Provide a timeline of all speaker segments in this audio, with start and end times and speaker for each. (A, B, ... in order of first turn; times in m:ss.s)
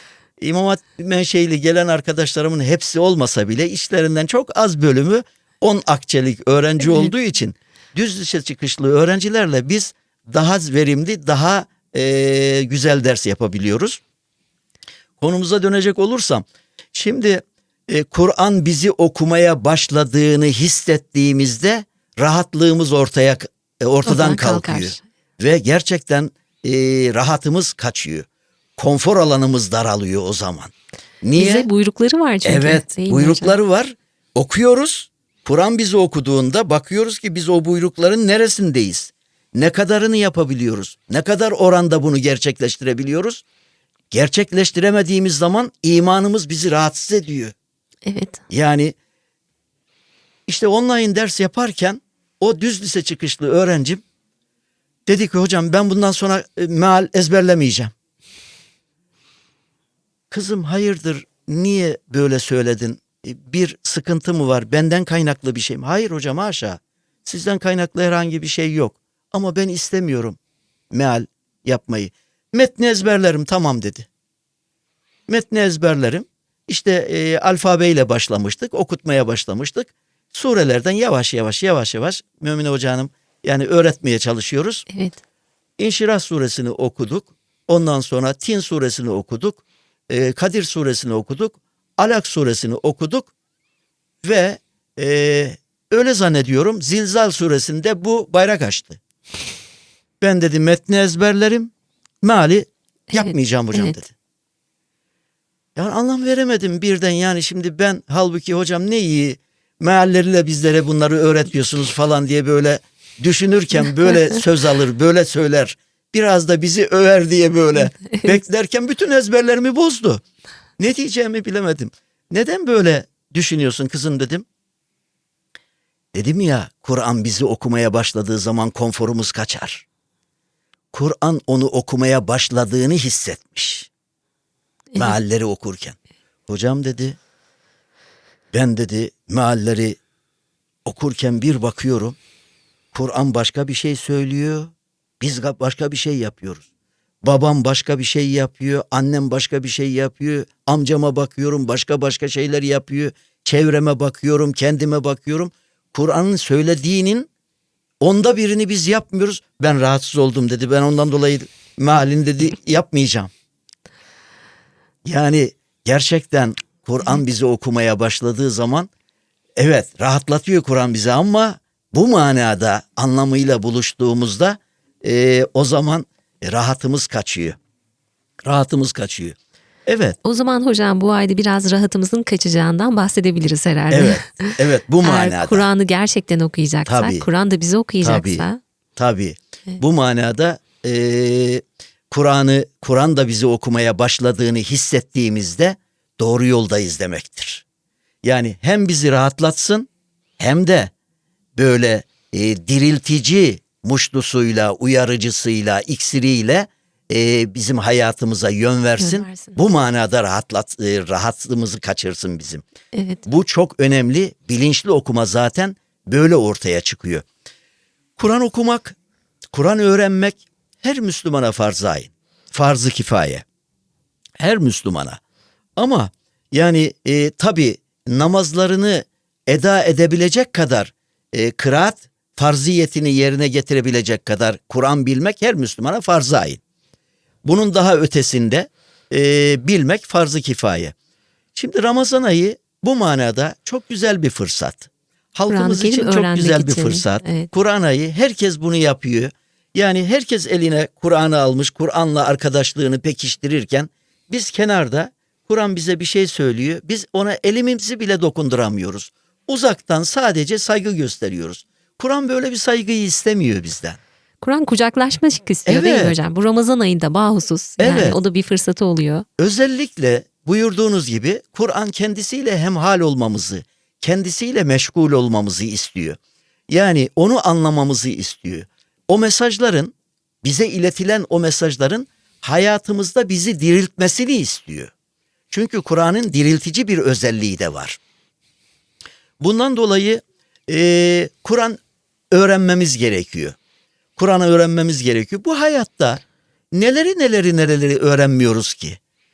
0:00.4-0:14.0 A
0:15.2-0:28.3 A
0:24.1-0:25.0 B
0:28.8-0:31.7 A
0:31.4-0:33.6 B
0:32.4-0:43.4 A
0:44.1-0:47.5 A
0:48.1-0:48.4 B
0:48.5-0:49.0 A
0:50.5-0:54.0 A
0:55.1-0:57.9 A
1:00.3-1:10.4 A
1:10.9-1:14.1 A
1:15.3-1:24.8 A
1:24.9-1:25.2 B
1:25.8-1:33.3 A
1:34.2-1:39.0 A
1:40.2-1:44.1 A
1:43.1-1:44.0 B
1:45.8-2:00.2 A
1:58.1-1:58.4 B
2:00.8-2:04.5 A
2:06.1-2:09.9 A
2:10.9-2:13.9 A
2:14.9-2:15.2 B
2:15.0-2:16.0 A
2:16.5-2:17.2 A
2:18.5-2:20.0 A
2:20.9-2:22.2 A
2:22.9-2:26.7 A
2:27.2-2:37.3 A
2:38.0-2:43.3 A
2:45.0-2:48.9 A
2:49.6-2:57.6 A
2:58.4-3:00.2 A
3:00.2-3:08.6 B
3:03.9-3:05.7 A
3:06.9-3:07.3 A
3:08.0-3:17.6 A
3:18.2-3:19.9 A
3:20.4-3:20.9 A
3:21.6-3:32.6 A
3:29.0-3:29.6 B
3:32.9-3:33.2 B
3:33.3-3:37.2 A
3:38.2-3:39.0 A
3:39.5-3:43.4 A
3:44.4-3:45.2 A
3:45.8-3:56.6 A
3:57.4-4:00.9 A
4:01.6-4:24.0 A
4:05.5-4:07.5 B
4:24.4-4:29.3 B
4:25.7-4:26.2 A
4:27.8-4:28.2 A
4:29.4-4:36.2 A
4:36.7-4:44.9 A
4:45.5-4:48.0 A
4:49.4-4:51.8 A
4:52.3-4:53.6 A
4:54.2-4:59.0 A